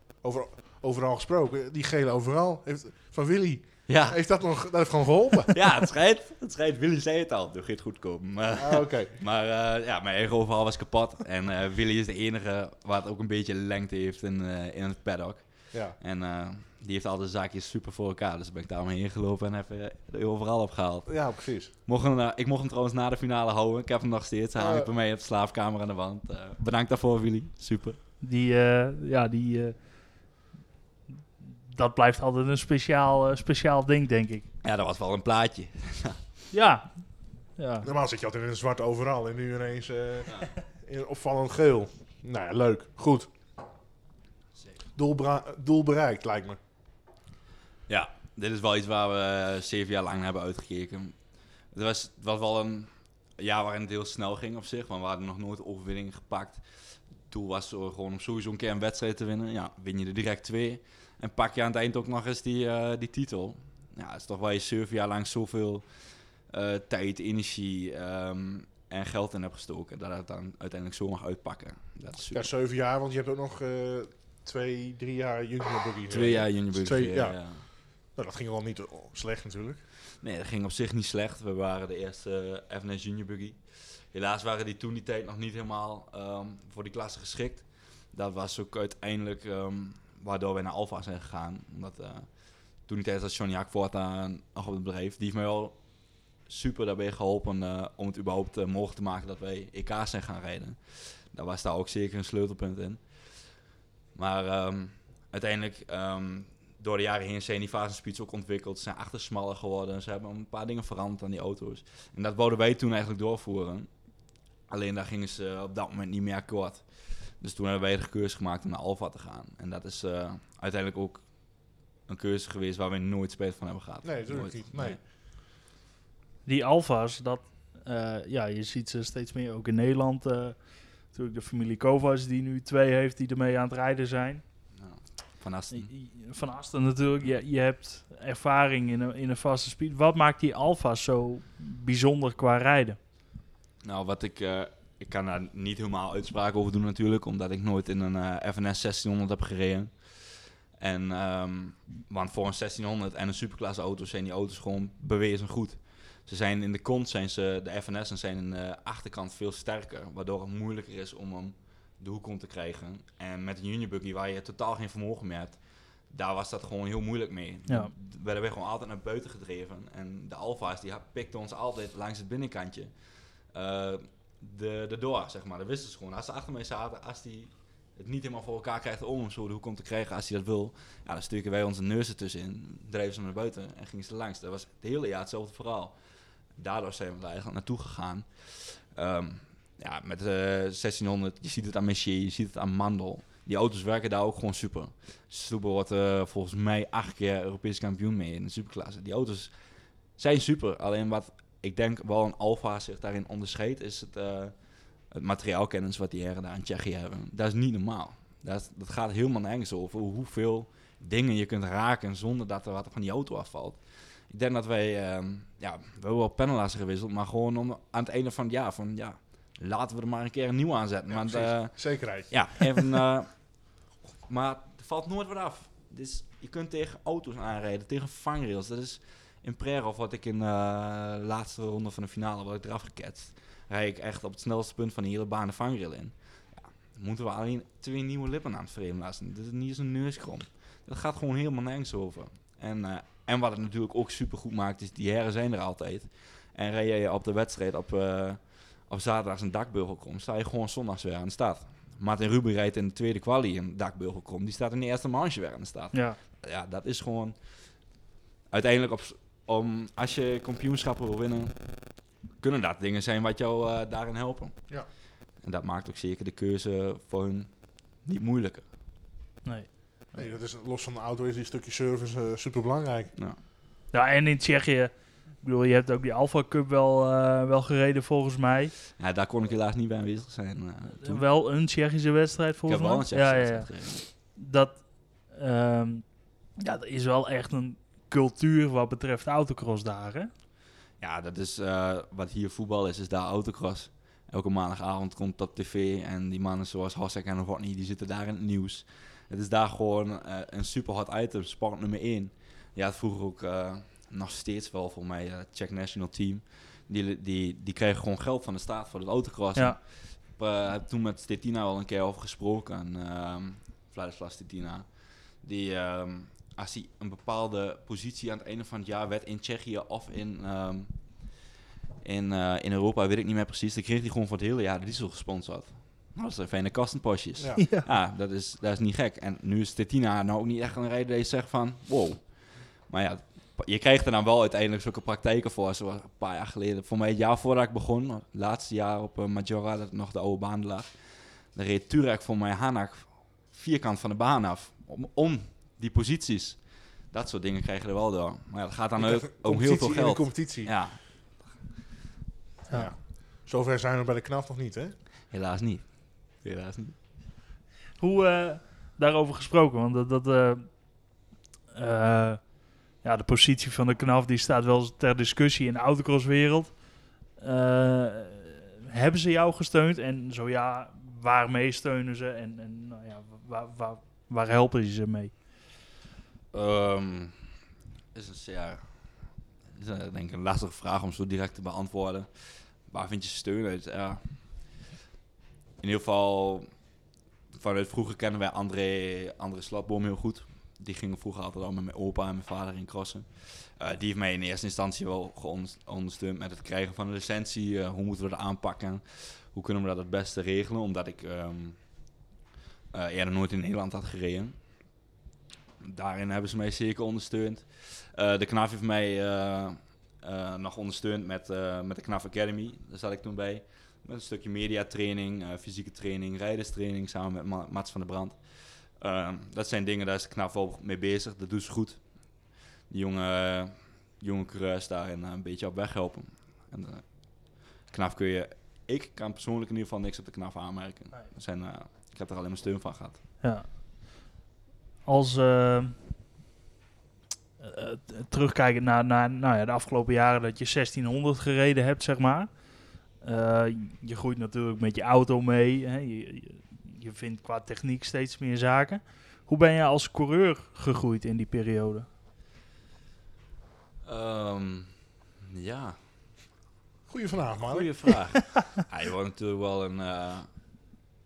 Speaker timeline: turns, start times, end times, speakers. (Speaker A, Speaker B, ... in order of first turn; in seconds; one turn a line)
Speaker A: 0.2-5.5
Speaker B: 3.9-4.2
Speaker B: 5.5-28.0
Speaker A: 8.6-9.1
Speaker A: 15.7-15.9
Speaker A: 21.1-21.7
Speaker A: 24.6-24.9
Speaker C: 28.2-29.9
Speaker C: 31.7-34.5
Speaker B: 34.6-36.2
Speaker C: 36.5-37.9
Speaker A: 37.8-43.3
Speaker A: 44.9-46.6
Speaker B: 47.9-51.2
Speaker B: 51.7-56.6
Speaker B: 57.2-65.8
Speaker B: 66.5-72.5
Speaker A: 72.3-79.8
Speaker B: 76.1-77.7
Speaker B: 80.2-92.3
Speaker B: 92.8-95.8
Speaker B: 96.4-103.0
Speaker B: 104.1-113.9
Speaker B: 114.7-121.3
Speaker B: 122.0-125.0
Speaker A: 124.0-125.0
Speaker C: 126.4-134.4
Speaker B: 134.8-135.9
Speaker C: 135.7-143.0
Speaker B: 143.8-165.6
Speaker B: 166.1-172.9
Speaker B: 173.5-185.9
Speaker B: 186.6-199.5
Speaker B: 200.2-204.5
Speaker B: 205.1-257.4
Speaker A: 221.1-222.9
Speaker C: 255.9-256.2
Speaker B: 258.5-264.7
Speaker B: 265.4-268.6
Speaker C: 269.4-269.7
Speaker A: 270.1-273.1
Speaker C: 273.9-278.8
Speaker B: 279.0-281.2
Speaker C: 281.0-290.3
Speaker B: 282.7-284.0
Speaker B: 291.0-314.9
Speaker B: 315.4-320.9
Speaker B: 322.0-351.6
Speaker A: 327.4-327.6
Speaker C: 327.6-327.9
Speaker A: 349.0-350.7
Speaker A: 352.7-354.9
Speaker B: 355.3-356.9
Speaker C: 358.0-361.2
Speaker C: 361.7-375.3
Speaker B: 376.5-377.4
Speaker B: 378.1-379.1
Speaker B: 379.7-384.2
Speaker B: 385.8-386.7
Speaker B: 387.5-401.8
Speaker B: 402.9-404.6
Speaker B: 405.8-422.2
Speaker B: 422.9-433.2
Speaker C: 433.4-434.2
Speaker C: 435.1-436.0
Speaker C: 437.6-452.1
Speaker B: 454.1-454.9
Speaker B: 455.4-455.9
Speaker A: 457.1-458.1
Speaker B: 457.6-460.5